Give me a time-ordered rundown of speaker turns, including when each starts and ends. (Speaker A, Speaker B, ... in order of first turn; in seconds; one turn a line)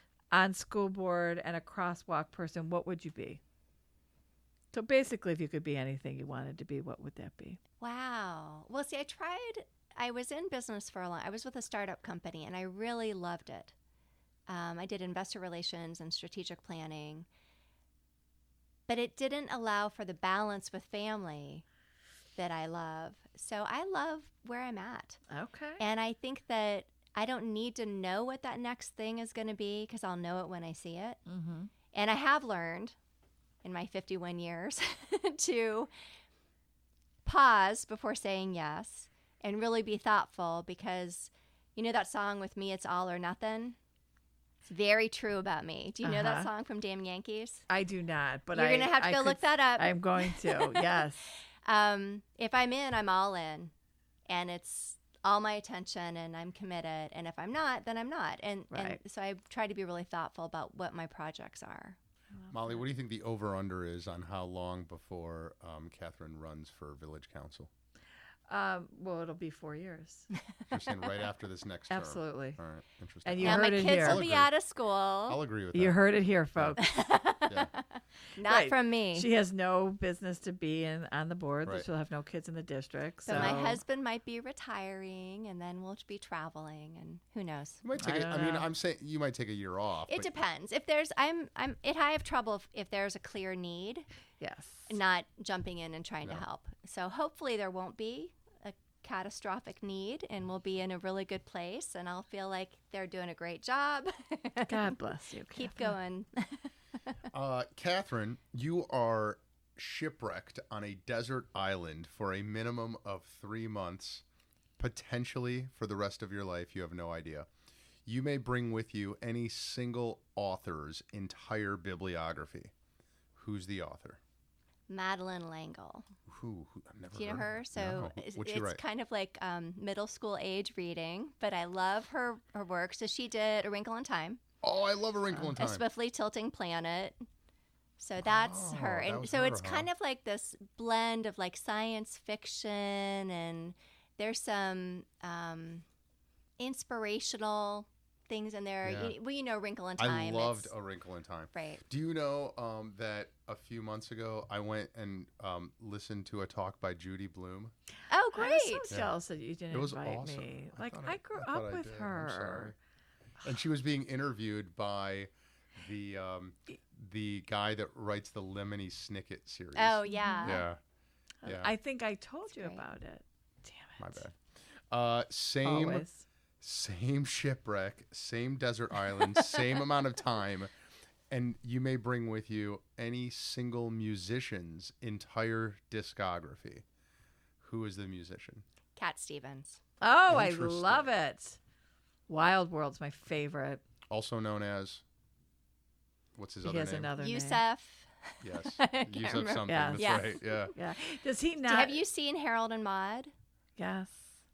Speaker A: 0.3-3.4
Speaker A: 4.7-7.6
Speaker B: 7.8-13.7
Speaker B: 14.5-17.3
Speaker B: 18.9-21.6
Speaker B: 22.4-25.2
Speaker A: 25.3-25.8
Speaker B: 25.8-31.2
Speaker A: 31.3-31.7
Speaker B: 31.9-32.9
Speaker B: 33.6-35.9
Speaker B: 37.2-43.8
Speaker B: 44.6-47.6
Speaker A: 46.0-46.5
Speaker A: 47.7-51.4
Speaker B: 48.5-51.0
Speaker B: 51.6-53.7
Speaker B: 54.3-62.0
Speaker A: 58.7-59.0
Speaker A: 62.4-62.8
Speaker C: 62.5-67.7
Speaker A: 68.5-70.3
Speaker C: 70.7-74.5
Speaker A: 71.9-72.6
Speaker A: 73.2-74.2
Speaker B: 73.4-75.4
Speaker C: 75.3-76.0
Speaker A: 75.7-76.9
Speaker B: 76.8-79.3
Speaker A: 78.4-83.8
Speaker B: 83.2-87.8
Speaker C: 83.3-83.8
Speaker C: 87.8-90.3
Speaker A: 88.0-88.7
Speaker B: 90.1-94.0
Speaker A: 94.4-95.0
Speaker B: 94.9-105.0
Speaker A: 104.7-106.0
Speaker B: 105.5-106.7
Speaker C: 107.3-114.2
Speaker C: 114.8-117.5
Speaker C: 118.0-122.7
Speaker C: 123.3-124.2
Speaker B: 124.9-126.1
Speaker C: 126.3-128.8
Speaker B: 127.1-134.4
Speaker C: 134.6-135.8
Speaker B: 135.3-137.2
Speaker B: 138.0-145.8
Speaker C: 138.2-139.9
Speaker B: 146.6-150.7
Speaker C: 148.8-149.1
Speaker C: 150.0-157.7
Speaker B: 151.5-151.8
Speaker B: 158.1-158.9
Speaker A: 158.3-162.7
Speaker C: 159.7-162.7
Speaker C: 163.4-170.8
Speaker B: 169.7-170.6
Speaker A: 170.1-170.6
Speaker A: 171.4-174.2
Speaker C: 171.4-171.7
Speaker B: 172.5-172.8
Speaker C: 174.0-174.3
Speaker C: 174.9-176.1
Speaker A: 175.6-176.2
Speaker C: 176.6-180.7
Speaker C: 181.3-186.8
Speaker C: 187.6-188.6
Speaker B: 188.9-189.8
Speaker A: 190.0-191.6
Speaker C: 190.3-191.1
Speaker A: 192.3-193.8
Speaker C: 194.1-195.0
Speaker C: 196.3-197.1
Speaker A: 196.6-197.6
Speaker B: 197.2-200.7
Speaker C: 198.4-200.7
Speaker A: 199.7-202.0
Speaker B: 201.6-203.3
Speaker A: 203.8-204.1